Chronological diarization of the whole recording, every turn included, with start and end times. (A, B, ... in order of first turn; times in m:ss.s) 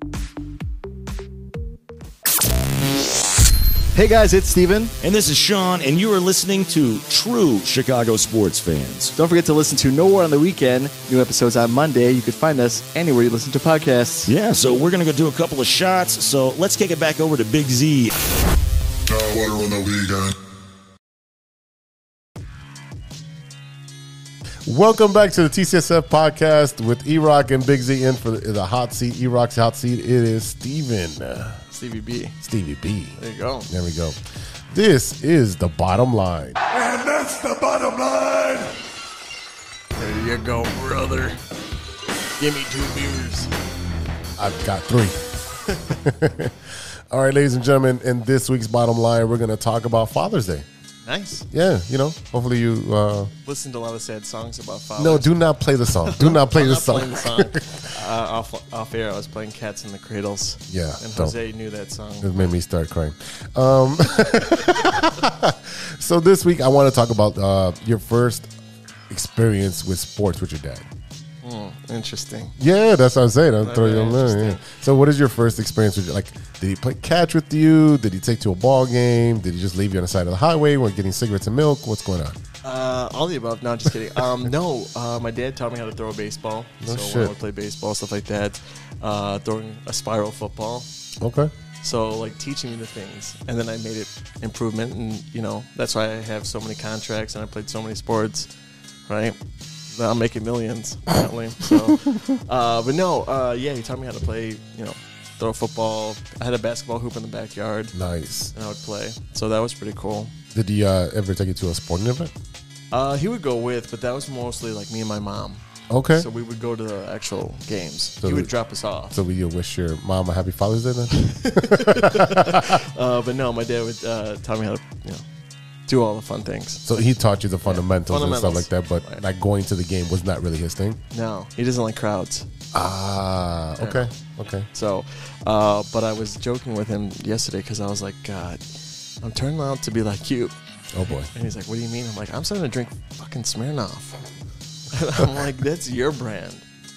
0:03.9-0:04.9 A
0:05.0-0:09.1 B
0:09.1-0:14.3 A
0:14.2-0:18.1 B
0:19.1-0:20.3 C
0:24.6-0:31.6 D
0:31.7-0:32.4 E
0:32.4-0:34.2 D
0:33.2-0:33.7 E
0:34.7-0:36.6 D
0:36.9-0:38.4 C
0:40.0-0:41.4 E
0:42.4-0:43.5 E
0:44.4-0:50.6 D
0:51.0-0:51.5 E
0:51.5-0:53.3 D
0:53.4-1:02.5 E
0:55.0-0:57.9 D
1:00.7-1:01.4 D
1:02.2-1:08.5 D
1:09.1-1:10.8 D
1:11.4-1:12.6 E
1:12.6-1:22.4 D
1:13.6-1:14.6 E
1:22.6-1:30.9 E
1:26.8-1:27.3 D
1:31.2-1:31.5 D
1:31.8-1:38.5 E
1:39.1-1:39.4 E
1:39.9-1:47.9 E
1:47.9-1:48.5 D
1:48.5-1:50.3 E
1:50.5-1:52.3 D
1:52.9-1:55.6 E
1:55.9-1:56.3 D
1:56.1-1:59.1 E
1:58.2-1:58.5 D
1:59.1-2:02.8 D
2:01.1-2:05.2 E
2:05.9-2:06.8 E
2:06.8-2:11.0 D
2:07.6-2:09.2 E
2:11.1-2:12.5 E
2:12.7-2:14.7 D
2:13.8-2:14.0 E
2:14.7-2:18.6 E
2:19.2-2:20.5 E
2:20.9-2:21.3 D
2:21.1-2:24.2 E
2:24.9-2:26.6 E